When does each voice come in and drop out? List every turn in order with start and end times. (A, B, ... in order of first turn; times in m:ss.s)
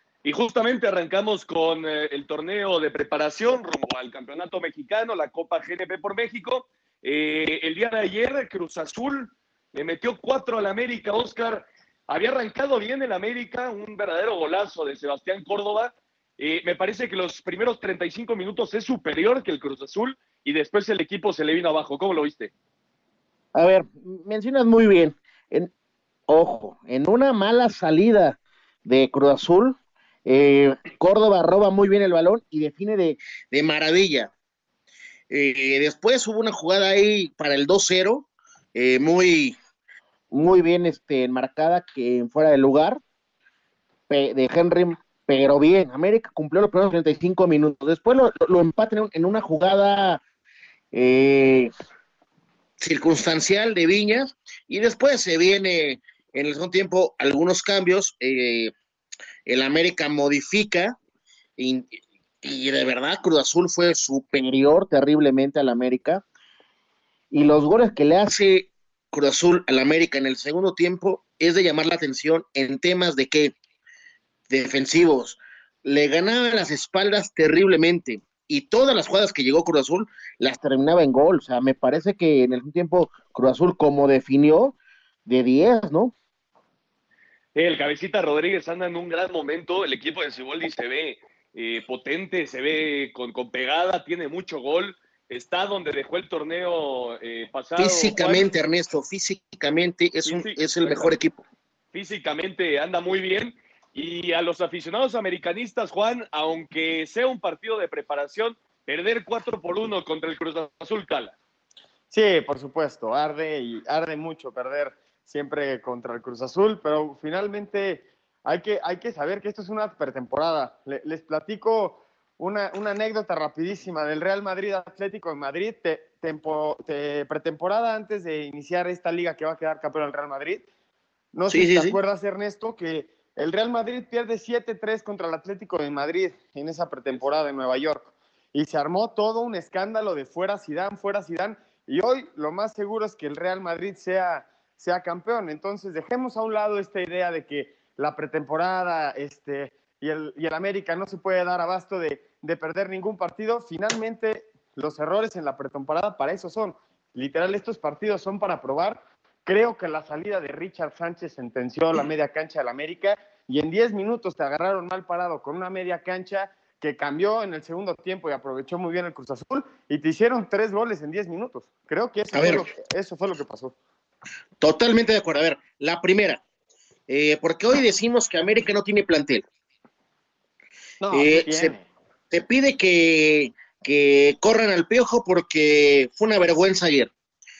0:00.2-0:22.5 A
0:23.5-0:25.7 B
0:26.3-0:34.3 B
0:35.3-0:39.6 B
0:40.3-0:43.0 B
0:44.1-0:50.2 B
0:50.9-0:51.7 B
0:52.8-0:58.7 B
0:59.4-1:01.0 B
1:01.6-1:06.2 B
1:07.3-1:13.5 B
1:14.5-1:24.7 B
1:25.2-1:26.1 B
1:27.5-1:38.5 A
1:37.8-1:41.4 B
1:40.2-1:41.2 A
1:41.9-1:51.3 A
1:52.1-2:10.6 C
2:11.3-2:53.7 C
2:11.5-2:12.0 B
2:52.3-2:52.7 B
2:54.6-2:56.4 B
2:57.1-2:59.4 B
3:01.0-3:01.8 C
3:01.1-3:01.7 B
3:02.3-3:07.1 B